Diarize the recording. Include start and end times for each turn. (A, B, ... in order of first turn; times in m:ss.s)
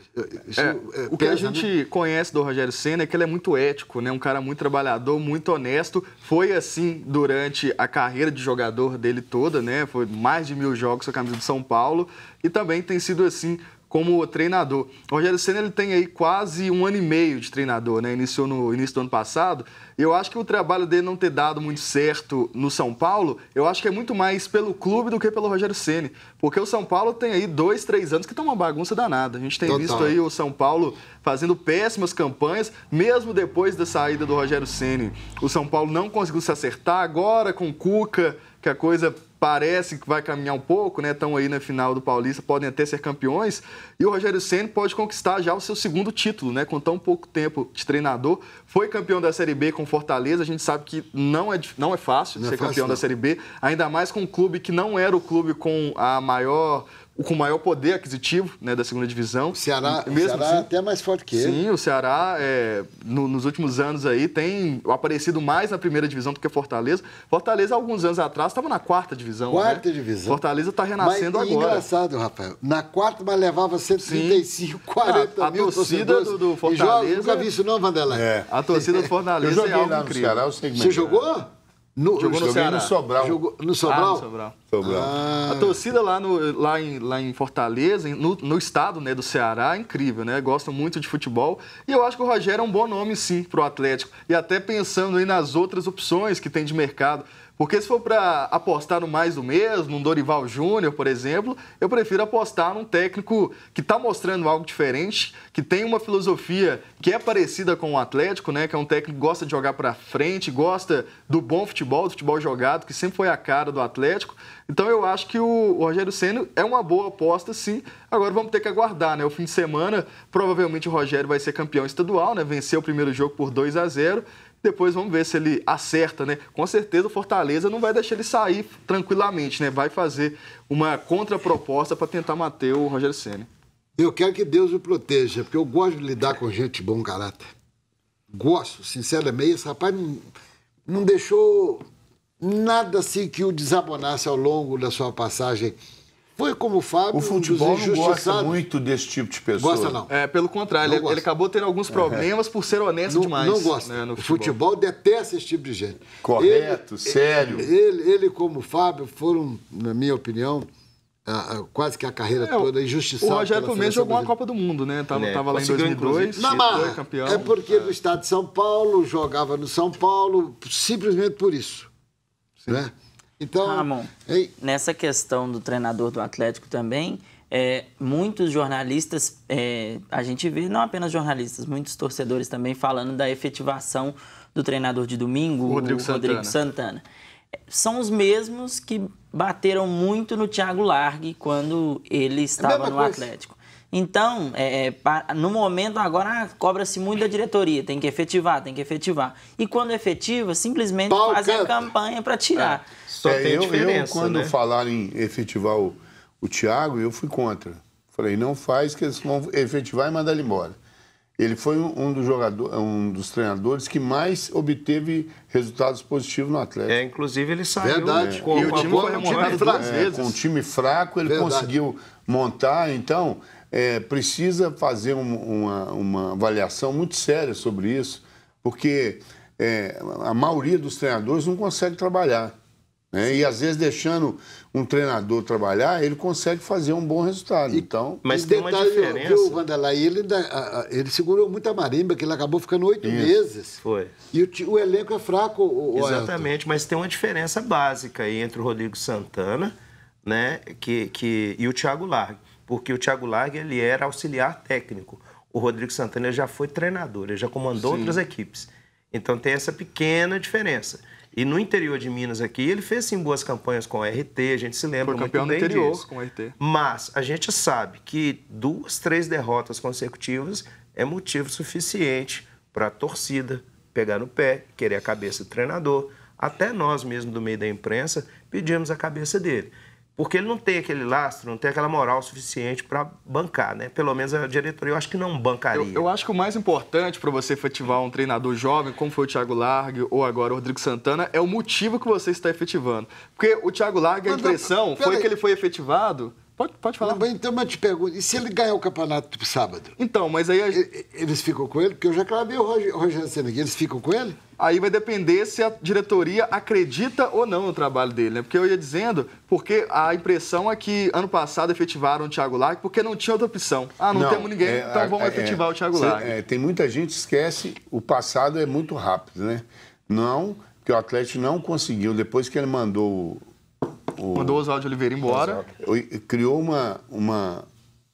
0:00.2-0:01.7 A
0:00.6-1:00.7 B
0:29.6-0:30.2 A
0:52.4-0:53.0 A
0:59.5-1:01.6 A
1:01.3-1:11.8 B
1:09.5-1:10.4 A
1:11.0-1:19.1 A
1:14.0-1:14.4 B
1:15.0-1:17.5 B
1:18.1-1:18.5 C
1:18.5-1:20.4 B
1:19.4-1:21.2 C
1:20.7-1:22.6 A
1:22.2-1:22.9 B
1:22.4-1:23.4 C
1:23.2-1:24.2 A
1:23.8-1:24.6 B
1:24.7-1:25.1 C
1:24.8-1:25.8 A
1:25.5-2:13.5 B
2:14.0-2:17.5 A
2:18.3-2:20.2 A
2:20.9-2:21.8 A
2:22.4-2:25.8 A
2:26.4-2:28.6 A
2:27.1-2:30.0 C
2:29.6-2:30.1 A
2:30.1-2:34.5 B
2:30.8-2:31.2 A
2:31.9-2:32.3 C
2:33.1-2:40.7 A
2:36.2-2:37.7 C
2:41.2-2:44.3 A
2:42.4-2:47.9 B
2:45.1-2:46.3 D
2:46.3-2:51.9 A
2:52.7-2:54.5 A
2:53.6-3:07.0 E
3:05.7-3:06.6 B
3:07.7-3:22.8 E
3:12.6-3:13.3 A
3:21.1-3:21.9 A
3:22.6-3:24.6 D
3:23.2-3:30.8 C
3:31.4-3:37.0 C
3:36.9-3:39.7 D
3:37.8-3:40.0 A
3:38.2-3:38.6 C
3:38.5-3:40.3 B
3:39.7-3:52.5 C
3:41.2-3:41.7 A
3:53.1-3:58.2 C
3:57.7-4:06.5 A
3:58.2-3:59.6 D
4:03.0-4:03.3 C
4:03.8-4:04.1 D
4:05.9-4:26.0 D
4:17.8-4:18.2 B
4:25.0-4:26.6 B
4:26.6-4:46.1 D
4:45.7-4:57.2 B
4:54.2-4:55.3 A
4:57.0-5:00.0 A
5:00.0-5:00.8 B
5:00.7-5:04.4 A
5:04.6-5:16.3 B
5:14.1-5:23.4 C
5:24.2-5:24.6 C
5:24.3-5:25.6 B
5:25.3-5:25.7 D
5:25.8-5:27.6 C